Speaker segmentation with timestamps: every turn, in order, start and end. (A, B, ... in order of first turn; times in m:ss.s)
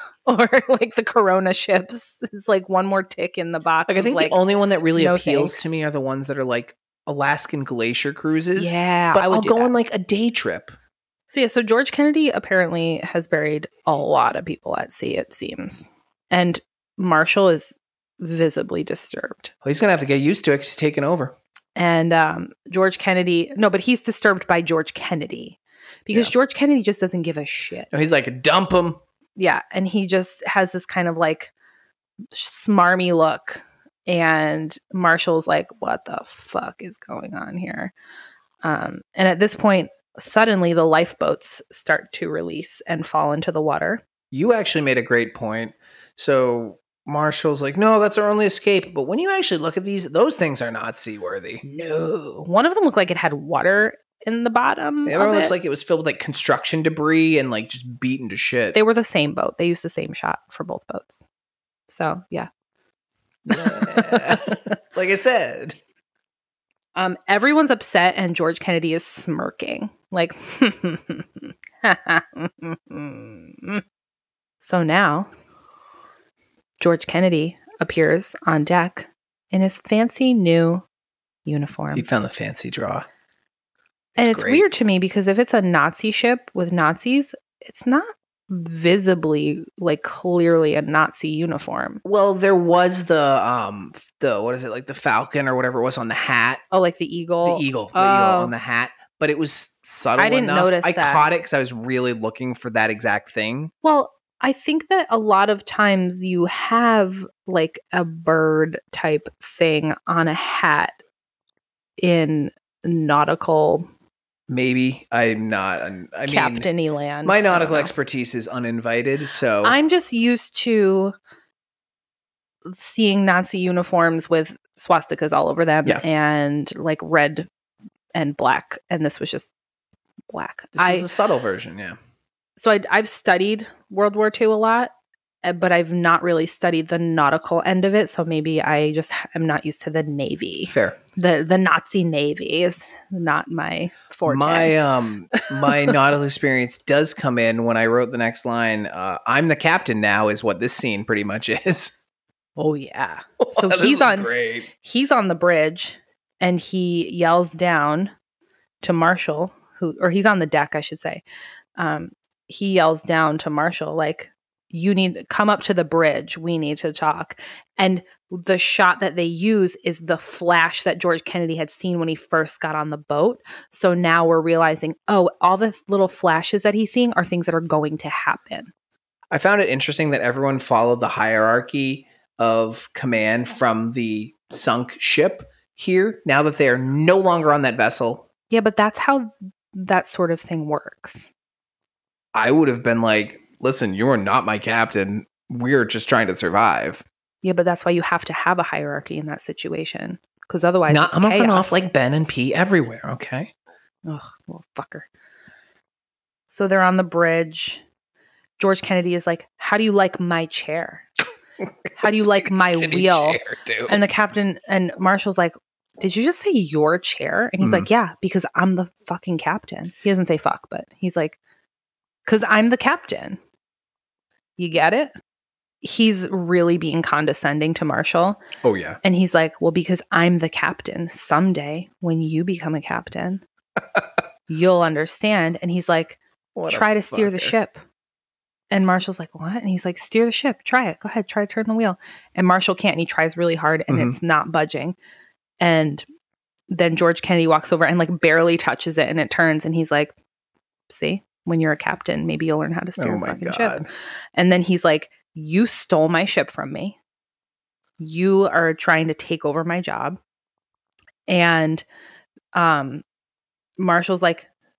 0:00.3-0:04.4 A
0:03.9-0:10.7 B
0:05.0-0:05.8 A
0:08.6-0:09.7 A
0:11.3-0:19.5 A
0:19.6-0:21.3 B
0:21.8-0:27.9 A
0:27.9-0:29.0 B
0:29.4-0:31.5 A
0:32.3-0:37.9 A
0:38.6-0:44.0 A
0:44.3-0:51.6 B
0:51.6-0:55.5 A
0:55.1-0:58.8 B
0:58.7-1:01.2 A
1:01.9-1:02.5 A
1:03.5-1:05.8 B
1:03.5-1:04.7 A
1:07.0-1:13.8 A
1:14.6-1:15.3 A
1:16.8-1:20.8 A
1:21.4-1:22.1 A
1:21.9-1:23.1 B
1:24.2-1:24.6 B
1:24.2-1:32.0 A
1:32.0-1:36.6 B
1:36.7-1:38.5 A
1:37.4-1:43.7 B
1:40.2-1:41.2 A
1:43.8-1:51.0 A
1:52.0-1:53.9 A
1:54.5-1:56.7 B
1:56.3-1:57.9 A
1:57.2-1:59.8 B
1:59.6-2:01.1 A
2:02.7-2:07.5 A
2:08.2-2:09.5 A
2:10.3-2:11.1 A
2:10.8-2:12.0 B
2:12.6-2:14.9 A
2:15.4-2:24.8 A
2:20.7-2:21.0 B
2:24.3-2:32.0 B
2:25.4-2:25.9 A
2:32.6-2:38.1 A
2:33.4-2:34.7 B
2:38.8-2:41.2 A
2:41.8-2:58.7 A
2:59.3-3:08.2 B
3:08.5-3:11.3 A
3:12.3-3:17.0 B
3:17.4-3:21.9 A
3:20.9-3:23.5 B
3:24.1-3:25.1 A
3:26.5-3:27.8 A
3:28.6-3:31.1 A
3:32.0-3:34.0 B
3:32.0-3:41.4 A
3:37.6-3:37.9 B
3:42.3-3:43.4 A
3:44.6-3:45.1 A
3:45.8-3:48.4 A
3:48.6-3:49.0 B
3:49.0-3:53.4 A
3:54.5-3:57.8 A
3:56.6-3:57.5 B
3:58.7-4:05.0 A
4:03.9-4:04.2 B
4:05.6-4:06.0 A
4:06.7-4:10.1 A
4:10.9-4:13.8 A
4:13.0-4:13.9 B
4:14.4-4:17.0 A
4:18.0-4:20.2 A
4:21.3-4:21.8 A
4:22.6-4:23.0 A
4:23.8-4:24.5 A